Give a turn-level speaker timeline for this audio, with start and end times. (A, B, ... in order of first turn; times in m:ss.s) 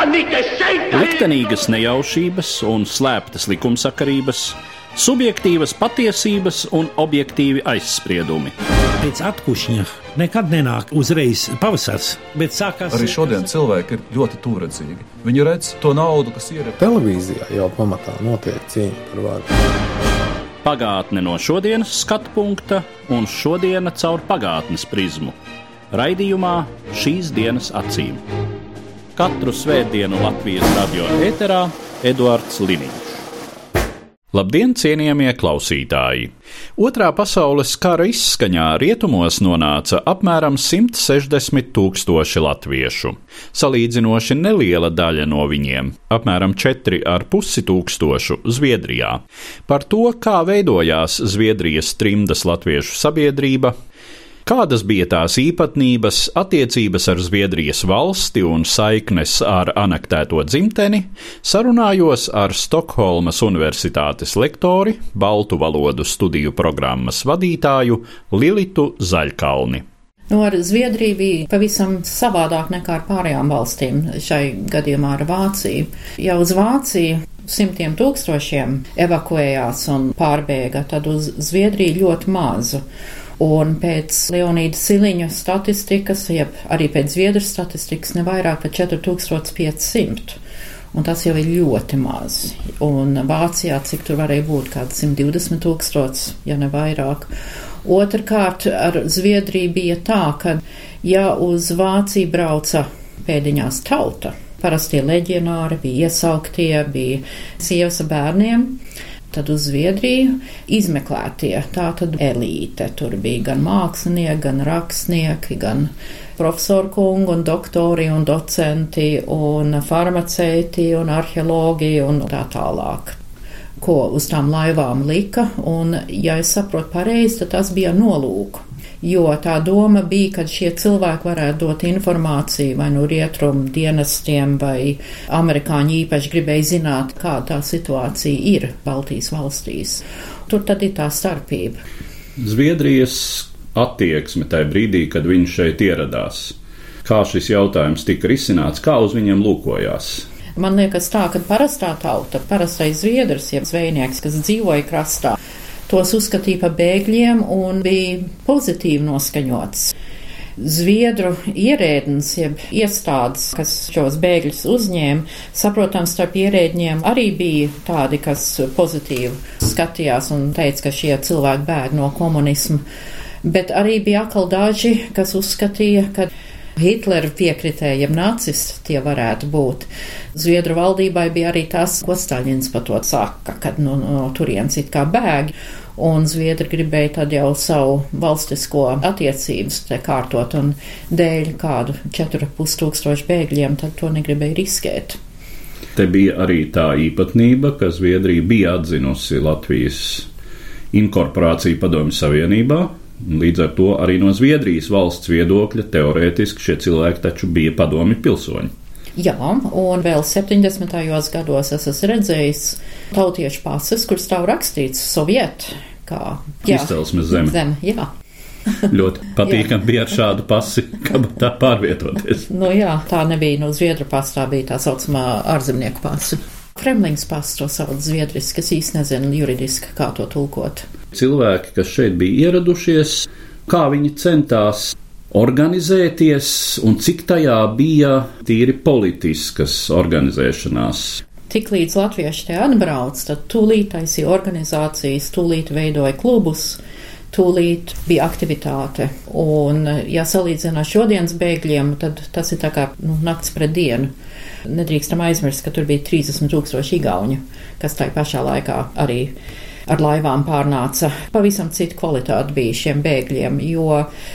0:00.9-0:08.6 A
0:09.0-0:13.3 B
0:12.9-0:16.8 C
0:16.8-0:19.5 D
0:20.6-0:25.4 A
0:25.9-0:28.2 A
0:29.2-0:33.2 A
0:34.3-0:53.8 A
0:54.4-1:09.8 A
1:10.3-1:22.8 E
1:23.4-1:30.4 E
1:30.9-1:37.3 E
1:37.8-1:48.8 E
1:49.3-2:03.2 E
2:03.8-2:21.8 E
2:22.4-2:30.2 A
2:30.6-2:35.4 E
2:35.9-2:39.9 E
2:40.6-2:52.8 E
2:53.4-3:15.2 E
3:15.9-3:20.3 A
3:20.9-3:28.7 A
3:29.2-3:38.1 E
3:36.7-3:37.5 A
3:38.9-3:42.4 A
3:42.5-3:50.8 E
3:51.1-4:01.2 A
4:01.5-4:06.8 E
4:07.3-4:14.1 E
4:14.6-4:19.3 E
4:19.9-4:24.1 E